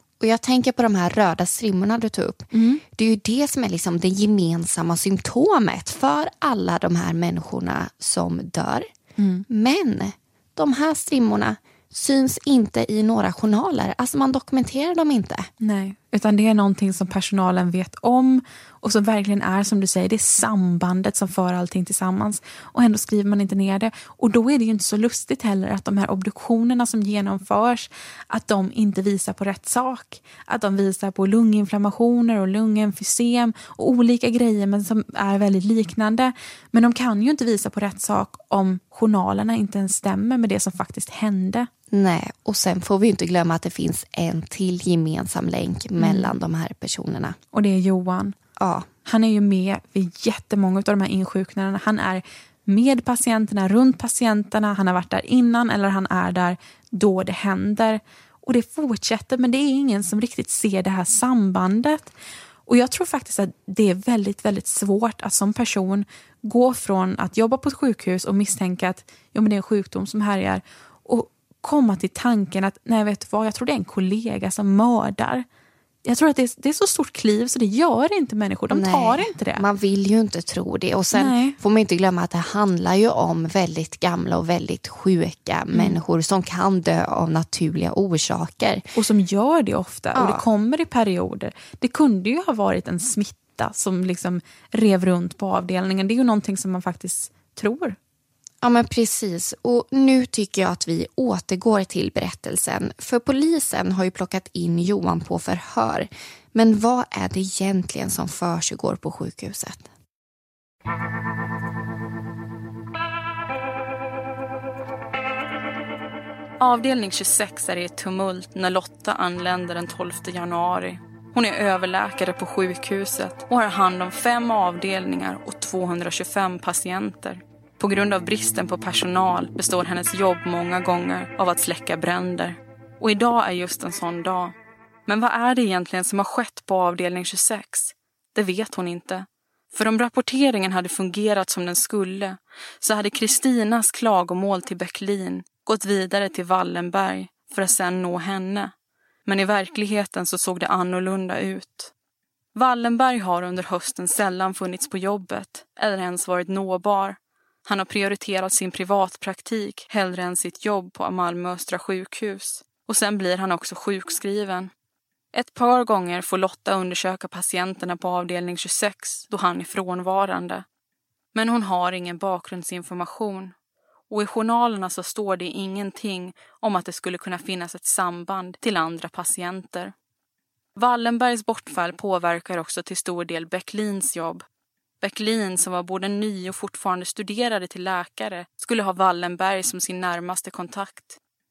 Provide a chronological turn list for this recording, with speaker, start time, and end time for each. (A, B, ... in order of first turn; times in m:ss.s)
0:00.2-0:08.9 A
0:02.5-0:02.8 B
0:09.2-0:09.4 B
0:09.5-0:15.5 A
0:15.6-0:41.7 B
0:41.9-0:47.4 A
0:46.0-0:46.3 B
0:47.5-0:48.3 B
0:48.6-0:48.9 A
0:49.0-1:02.1 B
1:02.7-1:15.4 B
1:16.0-1:19.6 B
1:18.7-1:28.8 A
1:21.1-1:21.6 B
1:25.7-1:26.0 B
1:28.9-1:38.0 B
1:30.1-1:30.4 A
1:38.6-1:49.9 A
1:56.6-2:14.5 C
2:15.1-2:28.7 C
2:29.2-2:31.9 C
2:32.5-2:44.7 C
2:45.3-2:50.6 C
2:51.3-2:53.5 C
2:54.1-2:59.9 C
3:00.8-3:04.4 C
3:05.0-3:11.2 C